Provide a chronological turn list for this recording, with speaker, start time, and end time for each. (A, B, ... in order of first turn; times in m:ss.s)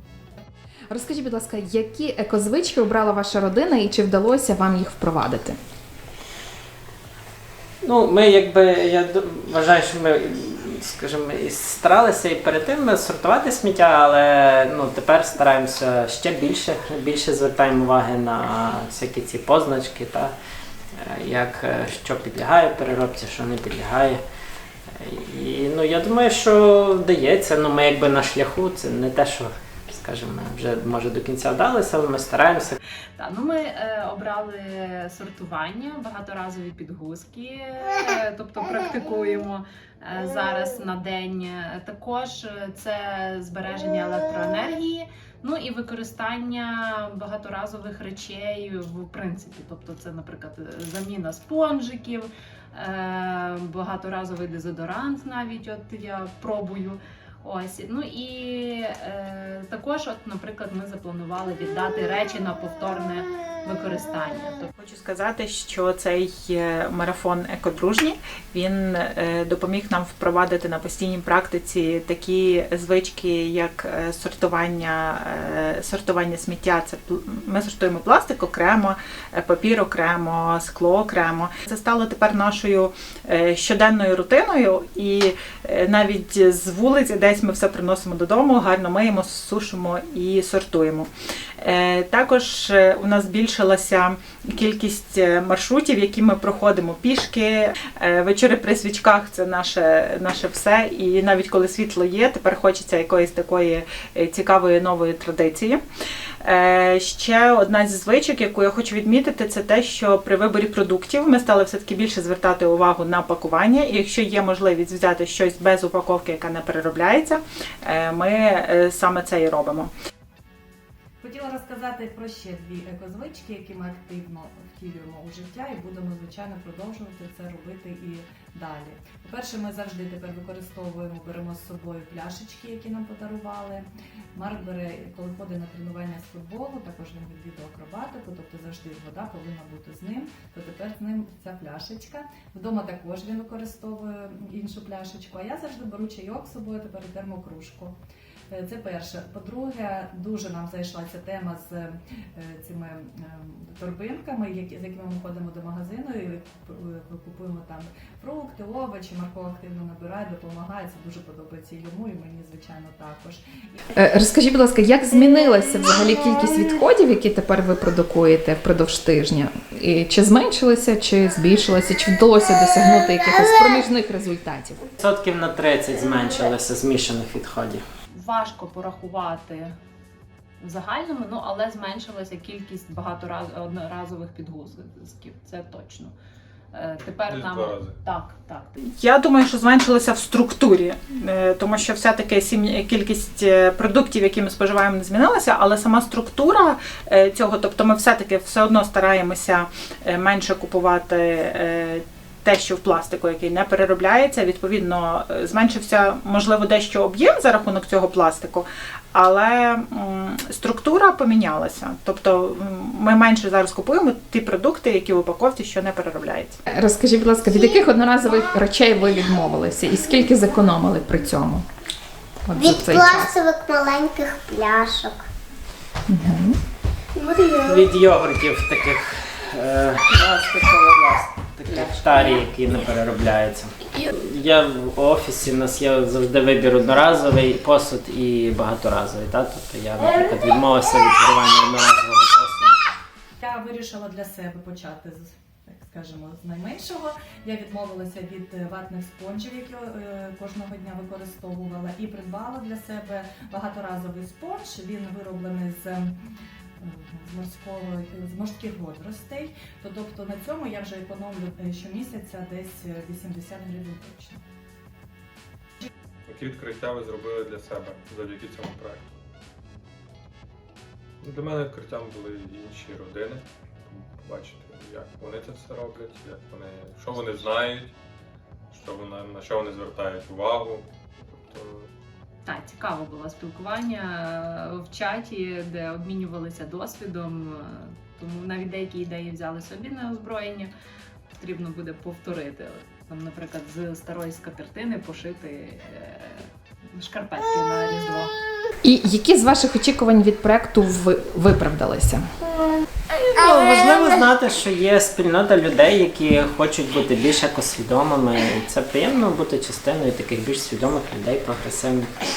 0:00.9-0:05.6 A
0:07.8-0:20.3 B
0:21.0-0:24.2 B
0:24.9-0:32.8 B
0:33.2-1:04.7 C
1:04.8-1:31.1 D
1:31.6-1:45.8 D
1:46.4-1:59.9 D
2:01.2-2:28.0 E
2:28.5-2:43.8 E
2:44.0-2:54.8 A
2:55.0-2:57.8 B
2:58.1-2:59.7 C
3:00.6-3:06.1 C
3:06.7-3:08.8 C
3:07.3-3:08.0 F
3:08.9-3:36.6 D
3:36.7-3:41.6 A
3:42.5-3:43.4 A
3:42.5-3:45.2 G
3:46.1-3:46.6 A
3:47.2-3:47.8 G
3:47.6-4:02.8 B
4:03.4-4:16.1 E
4:16.8-4:24.4 E
4:26.3-4:29.1 F
4:31.2-4:38.0 F
4:38.7-4:41.9 F
4:42.4-4:50.7 C
4:51.4-4:58.3 C
4:58.8-5:02.3 A
5:03.1-5:12.1 B